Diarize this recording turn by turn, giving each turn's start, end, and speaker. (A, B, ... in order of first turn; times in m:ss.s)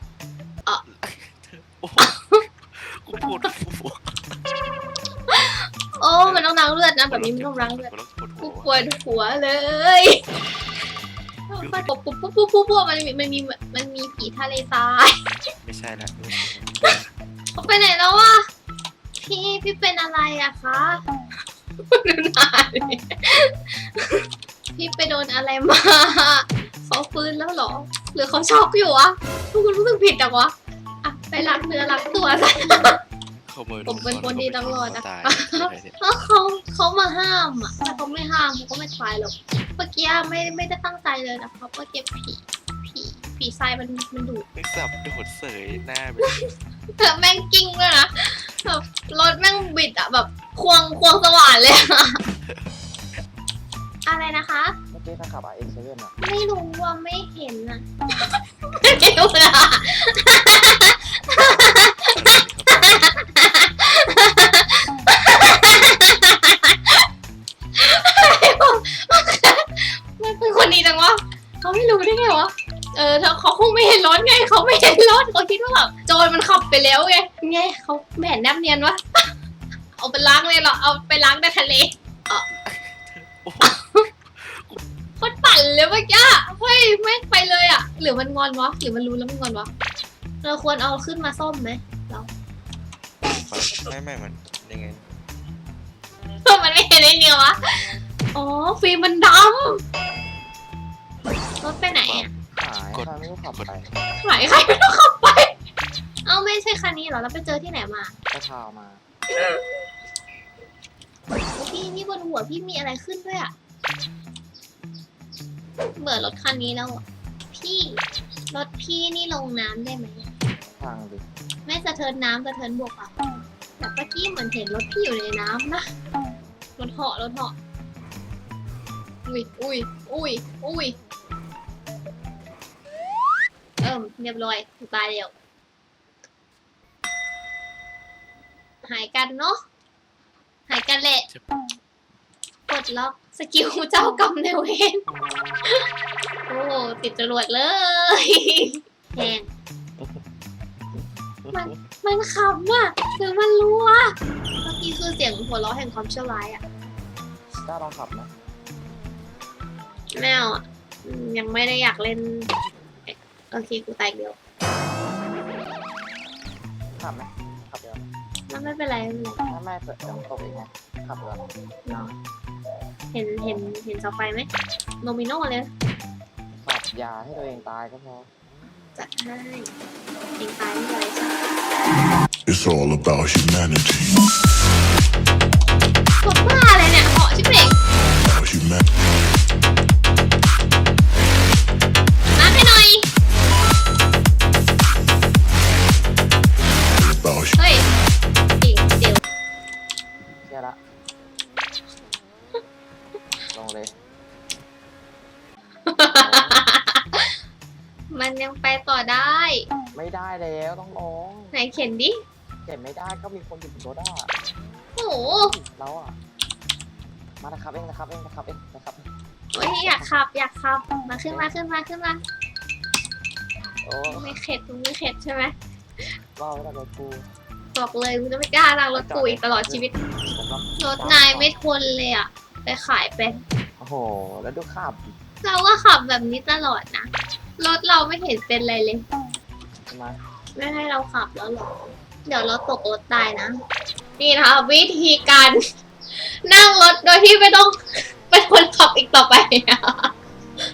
0:00.9-0:04.4 A
0:02.0-0:02.4 B
0:05.3-0:10.2 B
0:06.2-0:06.5 A
0:07.1-0:08.8 A
0:11.5-0:15.2 B
0:11.6-0:11.9 A
0:15.6-0:17.1 A
0:17.5-0:18.4 B
0:19.2-0:21.0 B
0:21.8-0:24.2 B
0:24.8-0:33.0 B
0:33.5-0:36.0 A
0:33.9-0:44.4 B
0:44.6-0:46.5 A
0:46.2-0:46.5 B
0:47.0-0:52.2 B
0:54.1-0:54.8 B
0:54.9-0:56.2 C
0:56.2-1:07.0 B
1:02.1-1:03.1 A
1:07.8-1:19.3 B
1:20.0-1:22.5 B
1:22.6-1:24.8 A
1:23.6-1:24.0 B
1:25.2-1:29.7 B
1:30.4-1:32.3 B
1:33.3-1:35.1 A
1:36.4-1:37.6 B
1:38.3-1:39.8 B
1:41.6-1:42.3 B
1:41.9-1:42.3 A
1:42.6-1:43.9 C
1:42.9-1:43.9 A
1:44.2-1:45.5 B
1:46.2-1:48.2 B
1:48.3-1:49.0 C
1:49.3-1:49.8 B
1:51.6-1:53.5 B
1:56.0-2:00.3 B
2:00.8-2:01.3 C
2:01.7-2:03.2 B
2:03.8-2:05.9 B
2:06.8-2:07.6 B
2:09.3-2:11.0 B
2:13.8-2:15.3 B
2:18.8-2:19.6 B
2:20.7-2:21.3 B
2:22.7-2:25.1 B
2:25.1-2:25.6 C
2:26.5-2:29.5 B
2:30.0-2:30.3 C
2:31.0-2:31.8 C
2:31.5-2:36.6 B
2:37.6-2:38.3 C
2:40.1-2:42.5 B
2:43.1-2:44.4 B
2:47.0-2:48.1 C
2:48.5-2:49.4 B
2:49.5-2:51.5 C
2:51.9-2:52.2 B
2:53.1-2:54.5 B
2:55.0-2:55.7 B
2:56.6-2:58.8 C
2:59.0-2:59.7 B
3:00.4-3:01.4 B
3:02.5-3:04.2 D
3:06.2-3:07.8 B
3:08.2-3:08.8 D
3:12.3-3:13.1 B
3:17.0-3:17.6 D
3:17.6-3:17.9 B
3:18.6-3:19.2 B
3:20.4-3:20.8 C
3:23.5-3:24.0 C
3:25.9-3:27.4 B
3:26.1-3:26.6 C
3:28.1-3:29.6 B
3:29.9-3:31.6 C
3:31.5-3:32.2 B
3:32.6-3:34.3 C
3:35.0-3:35.6 B
3:35.3-3:36.2 C
3:37.4-3:39.1 C
3:39.5-3:42.2 B
3:39.8-3:40.1 C
3:43.8-3:44.4 C
3:44.1-3:46.2 B
3:46.4-3:47.3 C
3:47.8-3:50.0 B
3:48.9-3:51.5 C
3:50.8-3:53.4 B
3:53.8-3:55.2 C
3:55.4-3:59.0 B
3:59.9-4:00.2 C
4:00.6-4:03.6 B
4:04.2-4:05.6 B
4:06.1-4:10.1 B